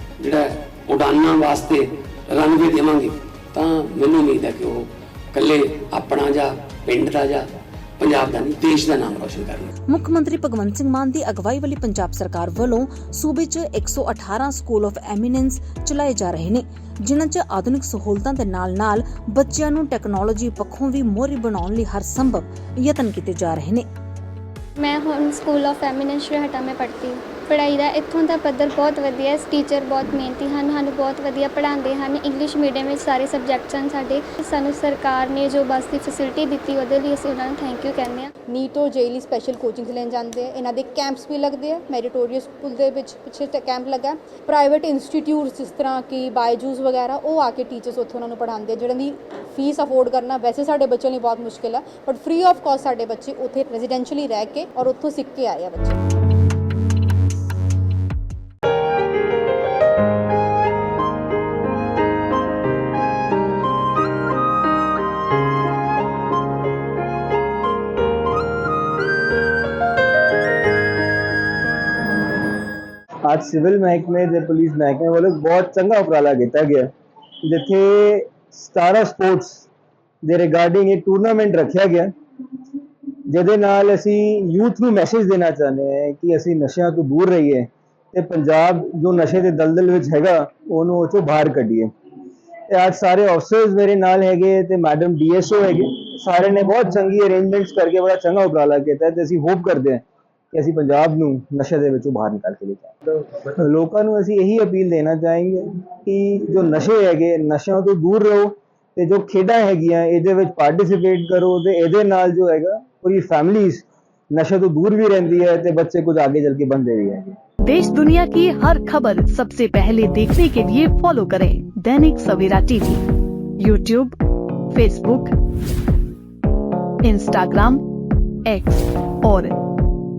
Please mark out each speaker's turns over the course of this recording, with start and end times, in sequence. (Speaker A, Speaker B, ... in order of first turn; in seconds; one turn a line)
Speaker A: 0.2-7.5
Speaker A: 8.0-9.7
Speaker B: 9.9-23.9
Speaker C: 24.8-38.3
Speaker D: 38.5-56.0
Speaker E: 73.3-76.9
Speaker E: 77.4-79.7
Speaker E: 80.2-82.1
Speaker E: 83.3-91.9
Speaker E: 92.7-102.9
Speaker E: 103.5-117.4
Speaker F: 117.6-123.0
Speaker F: 123.6-124.2
Speaker F: 124.7-125.3
Speaker F: 127.0-127.8
Speaker F: 128.4-129.6